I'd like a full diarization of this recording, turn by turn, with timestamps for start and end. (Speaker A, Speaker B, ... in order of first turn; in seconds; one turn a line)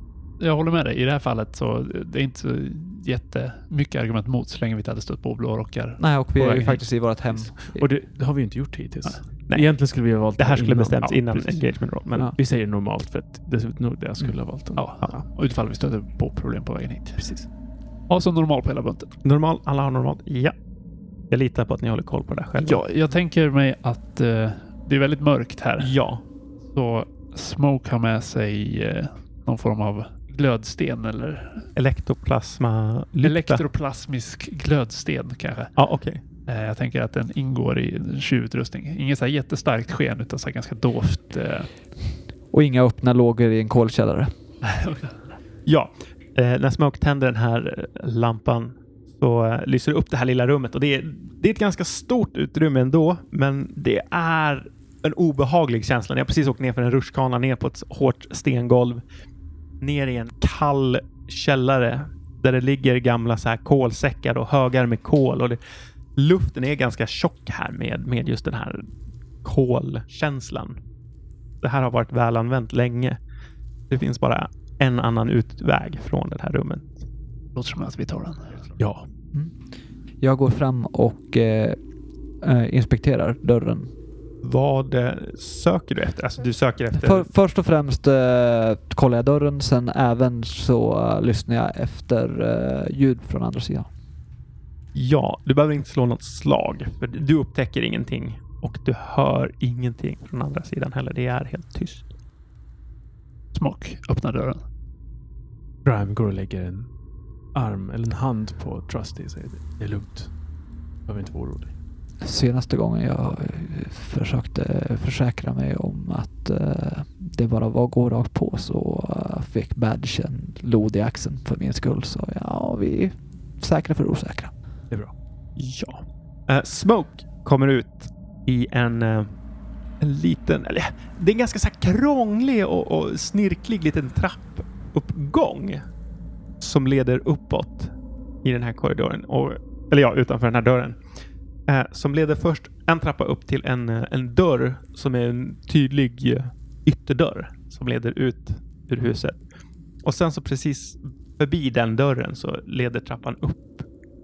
Speaker A: 0.4-6.8
Speaker B: 6.0-7.9
Speaker C: 7.7-11.2
Speaker D: 9.5-9.7
Speaker D: 10.4-12.3
Speaker C: 12.3-15.2
Speaker A: 14.8-17.4
Speaker C: 17.2-17.4
Speaker A: 18.1-19.1
Speaker D: 19.2-20.6
Speaker D: 21.3-22.8
Speaker A: 22.6-25.9
Speaker D: 25.8-26.2
Speaker A: 26.7-31.7
Speaker D: 31.7-33.6
Speaker A: 33.2-35.8
Speaker D: 35.7-36.2
Speaker A: 36.5-41.7
Speaker B: 42.5-44.3
Speaker A: 44.6-45.3
Speaker D: 45.6-59.0
Speaker D: 59.8-65.6
Speaker D: 66.2-68.9
Speaker D: 69.4-70.8
Speaker D: 71.6-73.2
Speaker D: 73.9-76.9
Speaker A: 77.5-78.7
Speaker C: 78.8-79.0
Speaker B: 80.2-81.8
Speaker B: 82.4-83.9
Speaker D: 84.4-87.3
Speaker B: 87.0-93.9
Speaker D: 94.9-102.1
Speaker A: 103.5-104.6
Speaker C: 105.8-106.9
Speaker C: 107.5-110.3
Speaker C: 111.0-111.7
Speaker B: 112.2-124.5
Speaker D: 125.6-129.4
Speaker D: 130.0-135.8
Speaker D: 136.6-141.0
Speaker D: 141.7-149.4
Speaker D: 150.0-153.8